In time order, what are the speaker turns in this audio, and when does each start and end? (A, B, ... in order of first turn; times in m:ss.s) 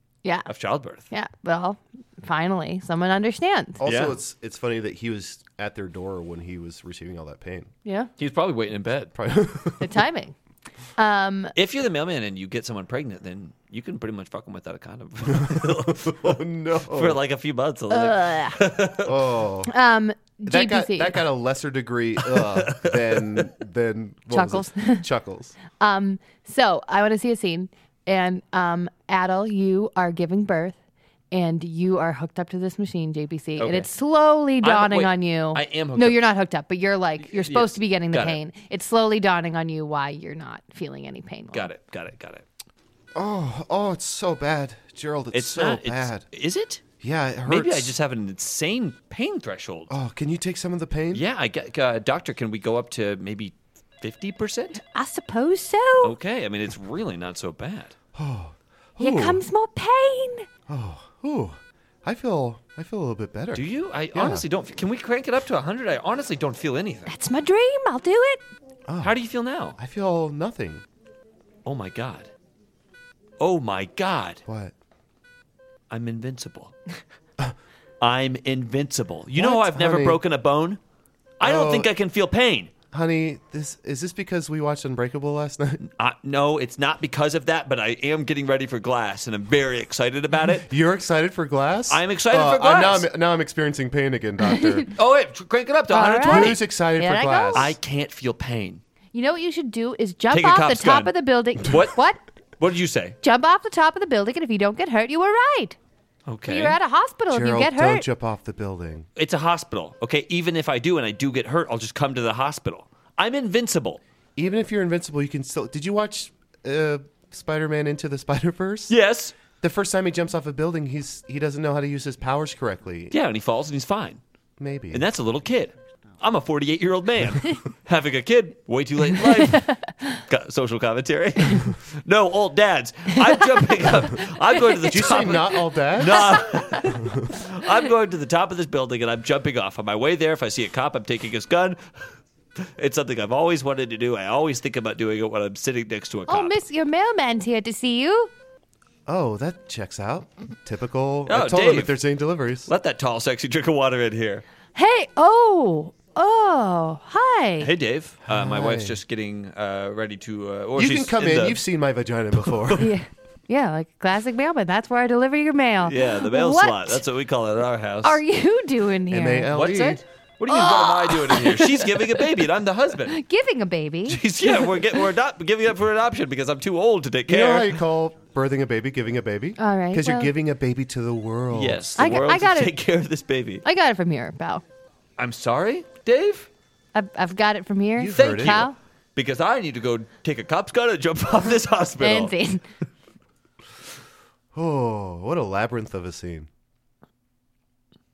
0:00.5-0:01.0 A
0:01.1-0:03.8 B
0:03.8-0:07.7 C
0:03.8-0:04.2 A
0:08.2-0:09.1 A
0:09.2-0:09.9 C
0:09.8-0:10.3 B
0:11.0-0:11.5 B
0:11.6-0:19.2 A
0:15.4-0:17.2 C
0:17.9-0:18.6 B
0:19.0-0:19.7 C
0:19.7-0:21.2 B
0:20.5-0:25.6 C
0:22.3-0:23.5 A
0:24.3-0:25.0 B
0:25.8-0:30.8 B
0:31.3-0:41.7 B
0:33.6-0:33.9 A
0:34.6-0:36.3 A
0:37.2-0:38.4 A
0:41.5-0:42.4 A
0:43.1-0:46.2 C
0:45.3-0:46.8 A
0:47.0-0:47.9 C
0:47.5-0:49.9 A
0:49.9-0:51.2 C
0:51.1-0:54.8 A
0:54.8-0:56.1 B
0:56.0-0:58.0 A
0:58.1-0:59.4 C
0:59.0-1:00.5 B
1:00.7-1:04.4 C
1:03.5-1:07.1 A
1:07.1-1:08.4 B
1:08.9-1:09.1 C
1:09.0-1:09.8 A
1:09.8-1:10.8 C
1:11.6-1:12.3 A
1:13.4-1:14.4 A
1:14.5-1:14.7 C
1:15.9-1:16.8 A
1:18.0-1:20.8 A
1:19.4-1:20.2 C
1:21.4-1:22.7 A
1:21.4-1:21.9 C
1:22.9-1:25.8 C
1:25.8-1:30.7 A
1:30.7-1:34.9 C
1:31.9-1:33.1 A
1:34.6-1:34.8 B
1:35.0-1:36.6 A
1:35.9-1:37.7 B
1:36.2-1:37.7 C
1:37.5-1:38.8 A
1:39.1-1:42.2 B
1:40.3-1:42.0 A
1:42.6-1:43.2 A
1:43.2-1:45.8 B
1:46.3-1:46.8 A
1:46.5-1:48.1 B
1:47.3-1:49.1 C
1:49.2-1:54.0 A
1:54.4-1:59.0 C
1:58.9-1:59.4 A
1:59.6-2:03.2 C
2:03.1-2:04.2 A
2:04.6-2:05.0 C
2:04.9-2:21.8 A
2:09.5-2:10.2 B
2:13.3-2:15.4 B
2:14.9-2:16.3 C
2:16.1-2:16.9 B
2:22.6-2:26.6 A
2:26.3-2:28.3 B
2:29.1-2:32.7 C
2:31.3-2:32.0 A
2:32.7-2:34.4 A
2:34.8-2:37.7 B
2:37.6-2:41.6 A
2:38.3-2:39.0 C
2:40.8-2:42.9 C
2:42.4-2:42.8 A
2:42.8-2:47.0 B
2:45.8-2:48.2 A
2:48.0-2:49.5 B
2:49.1-2:50.0 C
2:49.5-2:53.2 A
2:50.5-2:52.2 B
2:53.1-2:55.0 B
2:54.1-2:57.8 A
2:57.3-3:02.1 C
2:59.6-3:00.3 B
3:01.5-3:03.6 A
3:02.0-3:02.8 B
3:03.6-3:04.6 B
3:05.2-3:06.5 A
3:07.0-3:08.8 B
3:08.0-3:08.7 C
3:08.1-3:12.3 A
3:12.0-3:12.6 B
3:14.5-3:16.5 C